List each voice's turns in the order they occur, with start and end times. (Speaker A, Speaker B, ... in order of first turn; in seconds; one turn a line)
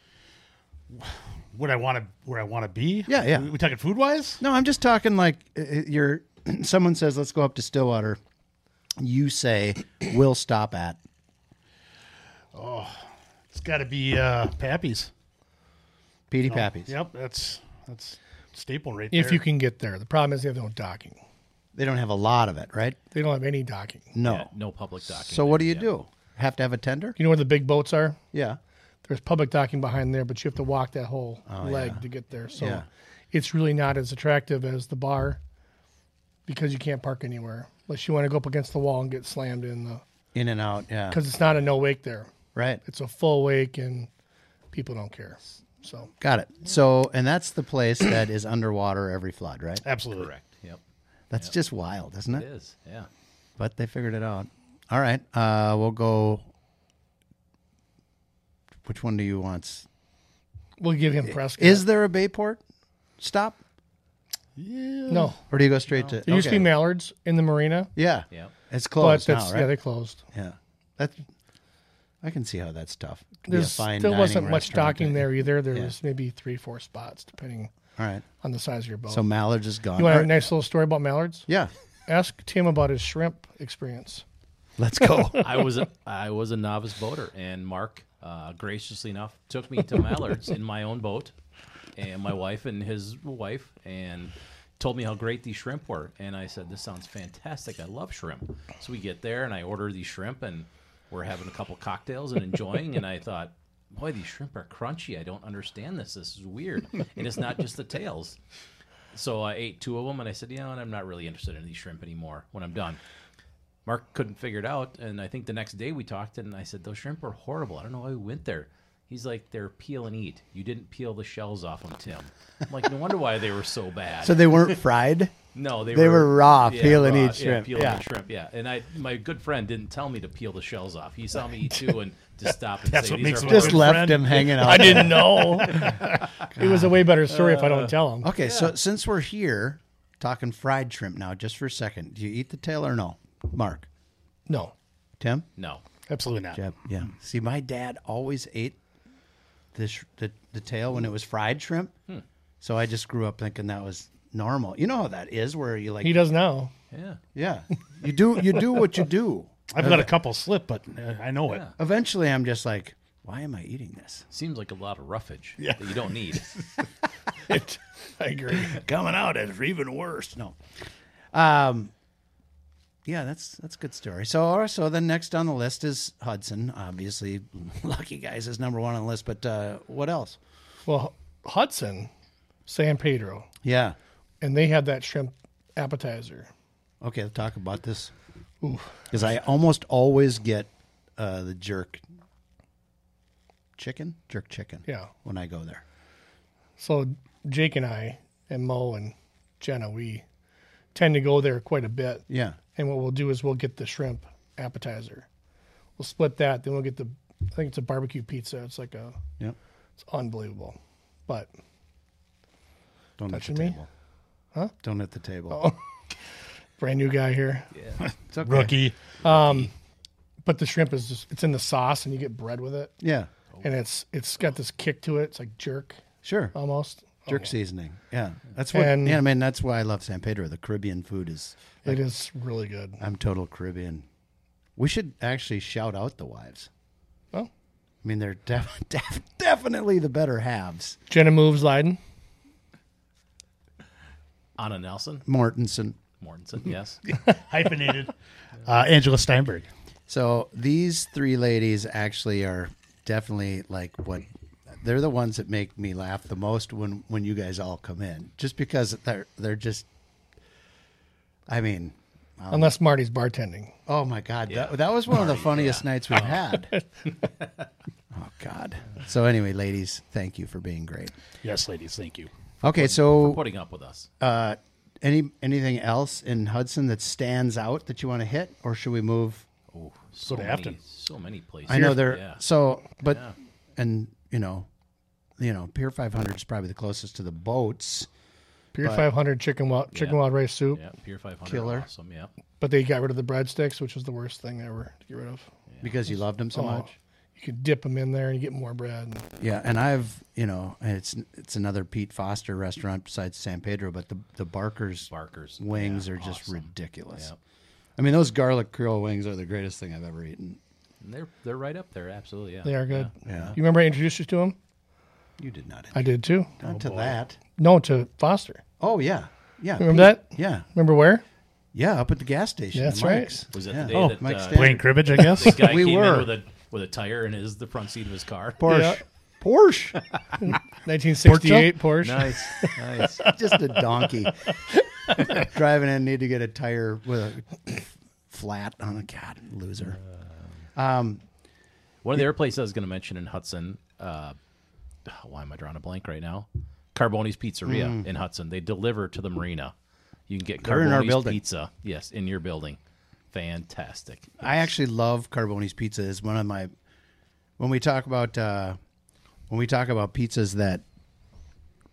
Speaker A: 0.9-4.4
Speaker B: 3.1-3.5
Speaker B: 4.4-8.2
Speaker B: 9.0-11.0
Speaker A: 12.5-15.1
Speaker B: 16.3-16.9
Speaker A: 16.4-19.4
Speaker C: 19.1-21.2
Speaker B: 21.7-23.0
Speaker C: 23.1-24.1
Speaker B: 24.1-24.5
Speaker D: 24.2-25.9
Speaker B: 25.0-27.2
Speaker C: 27.2-28.2
Speaker B: 28.3-28.6
Speaker C: 29.0-35.4
Speaker B: 31.5-32.0
Speaker B: 32.5-32.9
Speaker C: 36.5-40.0
Speaker B: 40.3-41.2
Speaker C: 41.1-42.3
Speaker B: 42.5-42.8
Speaker C: 42.8-44.1
Speaker C: 44.7-46.1
Speaker B: 46.2-49.8
Speaker A: 49.8-50.3
Speaker D: 50.1-50.8
Speaker B: 51.3-52.5
Speaker D: 52.3-53.1
Speaker B: 53.6-56.5
Speaker B: 58.8-59.9
Speaker C: 60.8-61.9
Speaker B: 61.2-62.6
Speaker B: 63.2-63.6
Speaker A: 64.5-65.3
Speaker C: 65.1-65.4
Speaker B: 65.5-66.7
Speaker C: 66.2-67.9
Speaker B: 68.0-69.7
Speaker C: 69.0-70.2
Speaker B: 70.3-71.2
Speaker B: 72.2-75.9
Speaker C: 73.5-77.7
Speaker B: 78.0-78.2
Speaker C: 78.4-79.2
Speaker B: 79.1-80.3
Speaker C: 80.0-81.5
Speaker C: 82.1-84.2
Speaker B: 84.8-85.7
Speaker D: 85.4-91.3
Speaker D: 92.0-108.4
Speaker D: 109.1-113.0
Speaker D: 113.8-124.8
Speaker B: 124.2-125.3
Speaker D: 125.5-134.1
Speaker B: 125.9-128.0
Speaker A: 132.9-136.1
Speaker B: 133.4-135.8
Speaker C: 134.4-136.0
Speaker B: 136.5-137.0
Speaker C: 136.6-138.3
Speaker D: 137.3-138.7
Speaker B: 138.2-143.9
Speaker C: 144.5-144.7
Speaker B: 145.2-145.5
Speaker D: 145.6-145.8
Speaker A: 146.1-146.6
Speaker B: 146.5-148.8
Speaker B: 149.7-151.9
Speaker B: 152.6-156.2
Speaker C: 156.0-156.7
Speaker D: 156.9-157.2
Speaker B: 157.3-160.1
Speaker A: 159.7-161.6
Speaker D: 161.5-161.7
Speaker B: 161.8-164.3
Speaker D: 164.3-166.5
Speaker A: 165.6-166.4
Speaker C: 167.4-168.8
Speaker B: 168.5-170.6
Speaker B: 171.3-171.9
Speaker B: 173.1-180.4
Speaker C: 180.8-182.1
Speaker C: 182.7-183.5
Speaker B: 183.6-183.9
Speaker C: 184.4-186.5
Speaker B: 187.0-188.1
Speaker C: 188.6-189.1
Speaker B: 189.1-192.0
Speaker B: 193.8-195.8
Speaker C: 194.8-195.1
Speaker C: 196.8-200.2
Speaker C: 200.9-205.3
Speaker B: 202.3-202.6
Speaker C: 206.0-209.2
Speaker C: 210.0-211.5
Speaker B: 213.2-213.9
Speaker C: 213.3-213.8
Speaker B: 214.8-215.6
Speaker C: 215.5-215.8
Speaker C: 216.8-217.7
Speaker D: 217.7-218.0
Speaker A: 218.0-218.9
Speaker B: 218.3-218.7
Speaker C: 219.2-219.7
Speaker C: 220.4-222.9
Speaker B: 223.0-223.3
Speaker C: 223.6-226.0
Speaker B: 226.2-226.5
Speaker C: 226.5-227.5
Speaker B: 227.3-232.0
Speaker C: 228.7-229.2
Speaker C: 231.8-233.0
Speaker B: 233.0-234.1
Speaker B: 234.8-236.7
Speaker B: 238.0-241.0
Speaker C: 241.1-242.0
Speaker D: 244.6-245.2
Speaker B: 245.2-246.0
Speaker D: 246.2-247.2
Speaker A: 247.2-249.7
Speaker B: 250.1-259.9
Speaker B: 261.5-262.7
Speaker C: 262.5-263.7
Speaker B: 263.9-266.7
Speaker D: 264.5-266.4
Speaker B: 268.1-271.1
Speaker A: 271.4-272.3
Speaker B: 272.6-273.4
Speaker D: 272.7-274.1
Speaker B: 274.2-279.4
Speaker D: 279.7-282.4
Speaker A: 280.2-280.8
Speaker B: 281.7-284.7
Speaker D: 283.0-283.3
Speaker B: 285.4-288.1
Speaker C: 288.7-290.8
Speaker B: 288.8-289.1
Speaker D: 289.9-290.2
Speaker D: 290.7-292.3
Speaker B: 291.4-291.9
Speaker C: 292.6-295.5
Speaker D: 295.7-295.9
Speaker B: 295.8-296.9
Speaker C: 296.5-299.3
Speaker B: 299.4-307.3
Speaker D: 305.1-307.4
Speaker B: 308.0-310.6
Speaker D: 311.0-313.6
Speaker C: 312.6-314.6
Speaker B: 313.2-313.6
Speaker B: 315.4-316.1
Speaker C: 315.9-316.5
Speaker B: 316.6-317.4
Speaker A: 316.6-317.2
Speaker C: 317.6-318.6
Speaker B: 318.8-320.6
Speaker C: 319.8-321.2
Speaker B: 321.7-326.3
Speaker C: 322.7-323.3
Speaker D: 323.5-328.6
Speaker A: 323.9-325.6
Speaker B: 328.6-330.0
Speaker C: 328.6-329.0
Speaker C: 330.4-333.3
Speaker A: 331.2-331.8
Speaker D: 332.0-333.3
Speaker B: 333.2-334.4
Speaker C: 334.5-335.3
Speaker B: 335.2-340.0
Speaker B: 340.8-341.2
Speaker D: 342.0-344.4
Speaker D: 345.1-349.7
Speaker B: 347.6-348.0
Speaker D: 350.3-352.8
Speaker B: 350.6-351.4
Speaker D: 353.3-354.4
Speaker B: 354.4-356.7
Speaker B: 357.6-358.8
Speaker B: 359.5-360.8